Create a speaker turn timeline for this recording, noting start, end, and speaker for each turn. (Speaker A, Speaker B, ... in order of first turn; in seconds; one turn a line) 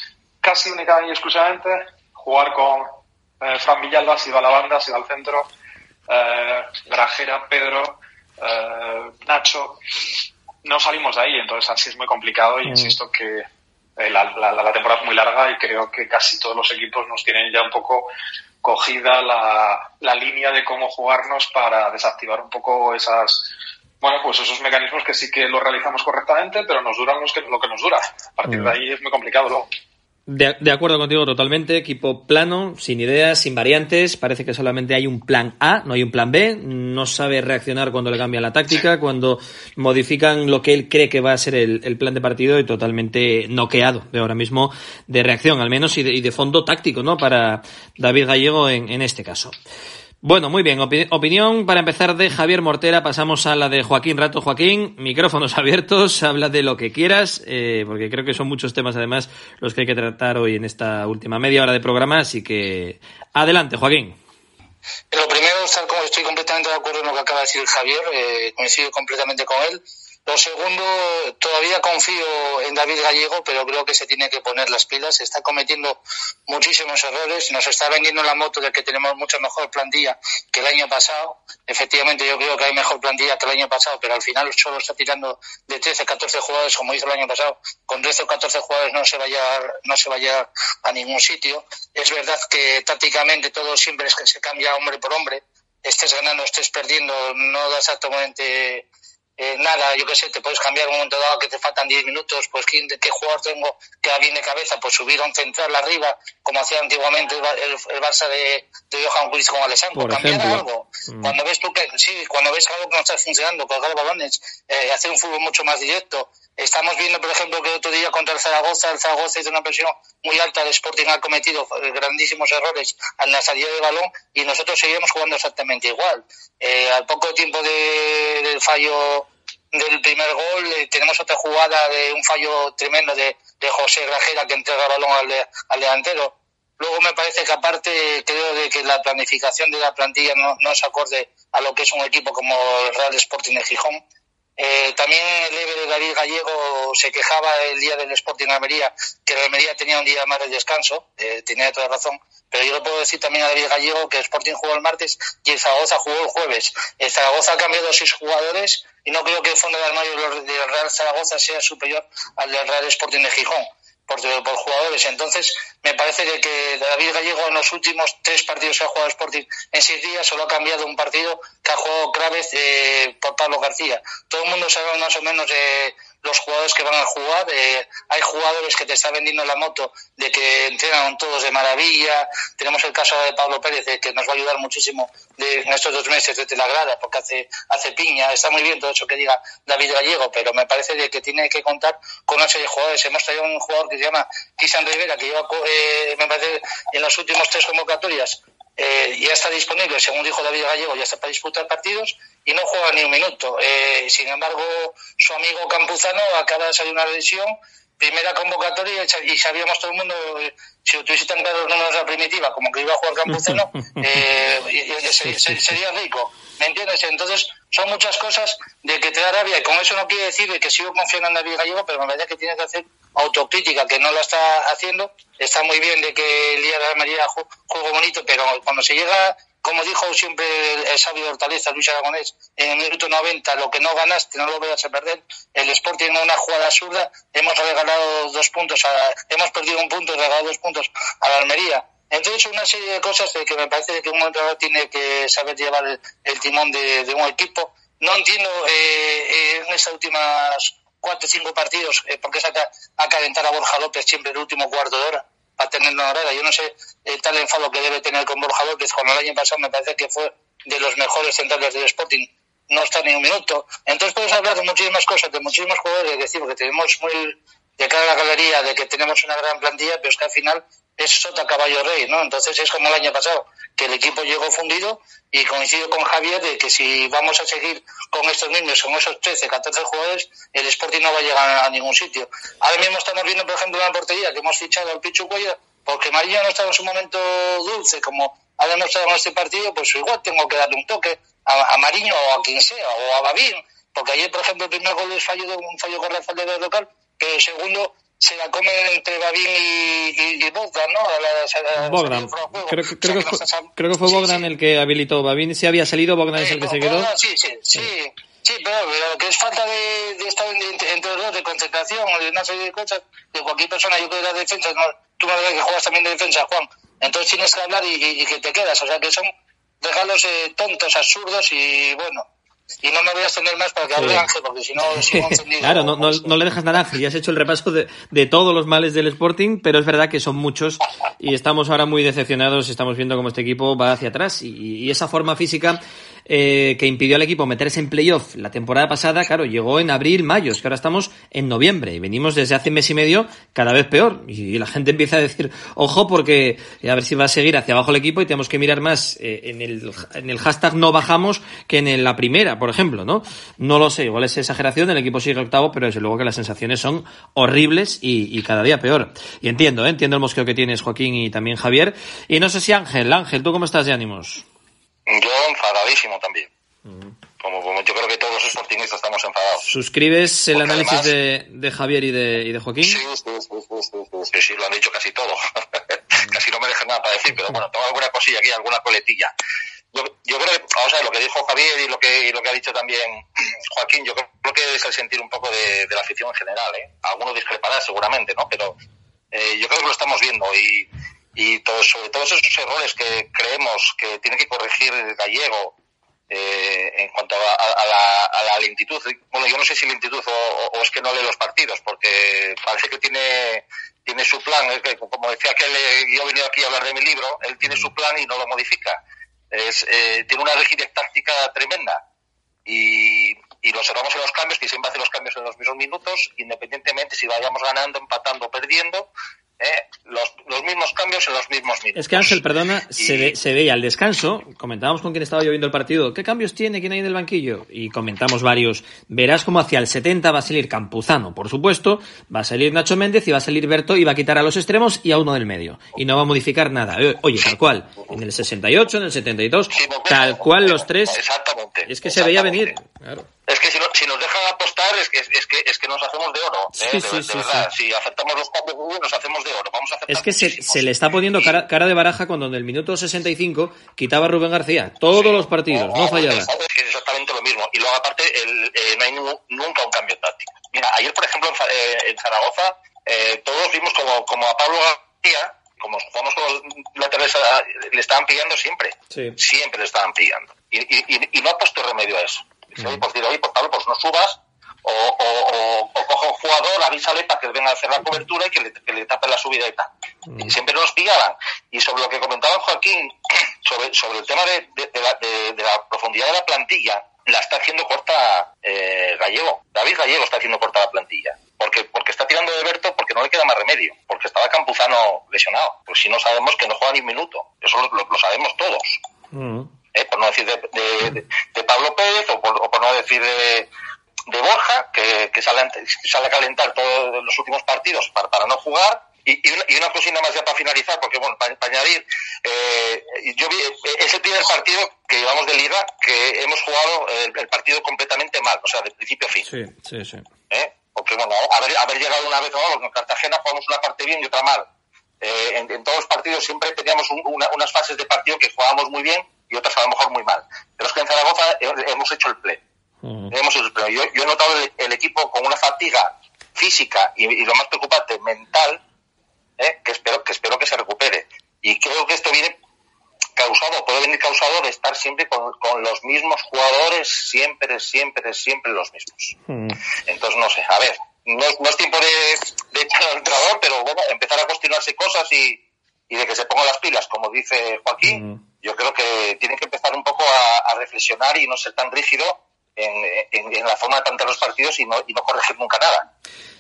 Speaker A: 0.4-5.5
Speaker A: 6.1-9.8
Speaker A: 10.6-13.5
Speaker B: 12.7-12.9
Speaker A: 14.0-18.1
Speaker A: 18.6-29.7
Speaker B: 28.5-28.7
Speaker B: 30.3-49.5
Speaker B: 50.2-64.2
Speaker C: 65.1-98.8
Speaker C: 99.4-144.0
Speaker B: 110.0-111.4
Speaker C: 144.6-304.4
Speaker B: 213.3-214.2
Speaker B: 215.2-215.6
Speaker B: 301.8-307.1
Speaker C: 306.4-319.3
Speaker C: 319.8-322.3
Speaker C: 322.8-326.4
Speaker B: 323.9-324.3
Speaker B: 324.8-364.4
Speaker D: 365.1-366.5
Speaker B: 366.9-367.1
Speaker D: 367.4-369.7
Speaker B: 369.7-373.0
Speaker D: 370.5-371.1
Speaker D: 372.8-375.4
Speaker D: 376.1-379.3
Speaker D: 379.9-388.8
Speaker D: 389.3-395.8
Speaker D: 396.3-409.0
Speaker D: 409.5-412.0
Speaker D: 412.7-422.4
Speaker B: 422.0-441.2
Speaker D: 422.9-423.4
Speaker D: 439.7-442.8
Speaker B: 441.9-443.3
Speaker D: 443.5-451.6
Speaker B: 446.7-447.7
Speaker B: 450.1-456.5
Speaker D: 455.1-499.0
Speaker B: 469.1-469.4
Speaker B: 480.3-480.5
Speaker B: 499.3-499.7
Speaker D: 499.9-503.7
Speaker D: 504.3-519.5
Speaker B: 519.5-520.2
Speaker D: 520.5-524.7
Speaker D: 525.2-532.6
Speaker B: 533.0-533.3
Speaker D: 533.3-538.8
Speaker D: 539.6-542.6
Speaker D: 543.4-549.4
Speaker B: 549.5-549.8
Speaker D: 550.1-566.1
Speaker B: 558.0-558.4